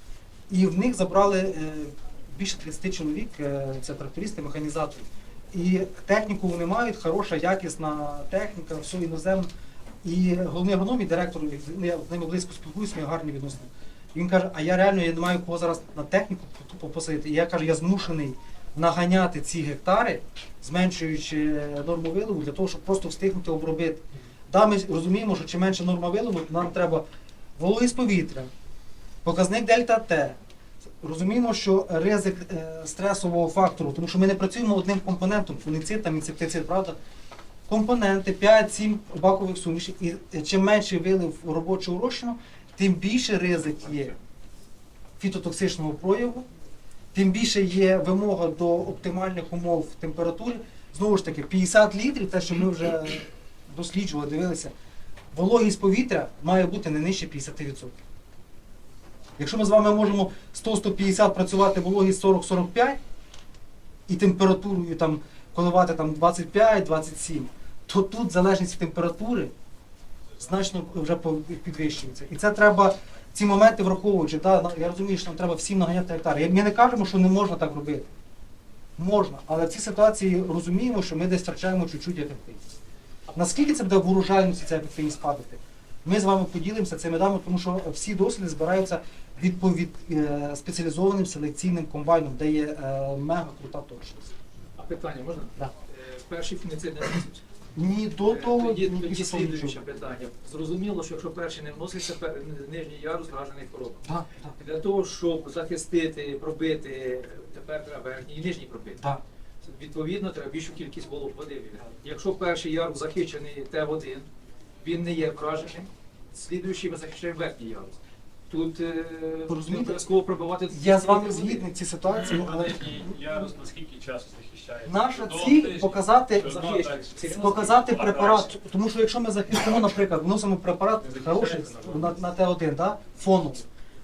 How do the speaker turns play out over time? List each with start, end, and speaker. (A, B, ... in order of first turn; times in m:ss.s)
0:00.5-0:09.5 A
0:10.0-0:27.0 A
0:27.6-0:28.5 A
0:29.2-0:30.4 A
0:31.0-0:37.0 A
0:37.7-0:44.1 A
0:45.2-0:46.4 A
0:47.1-0:54.7 A
0:55.3-0:57.9 A
0:59.4-1:03.0 A
1:04.1-1:09.5 A
1:10.4-1:18.1 A
1:19.0-1:22.6 A
1:23.3-1:34.3 A
1:34.8-1:37.4 B
1:37.8-1:39.8 A
1:38.3-1:44.0 B
1:44.0-1:44.5 A
1:44.6-1:49.0 B
1:49.6-1:54.3 B
1:54.8-1:58.0 B
1:58.5-2:01.7 B
1:59.5-2:00.0 A
2:00.7-2:03.1 A
2:04.8-2:13.6 A
2:05.3-2:08.4 B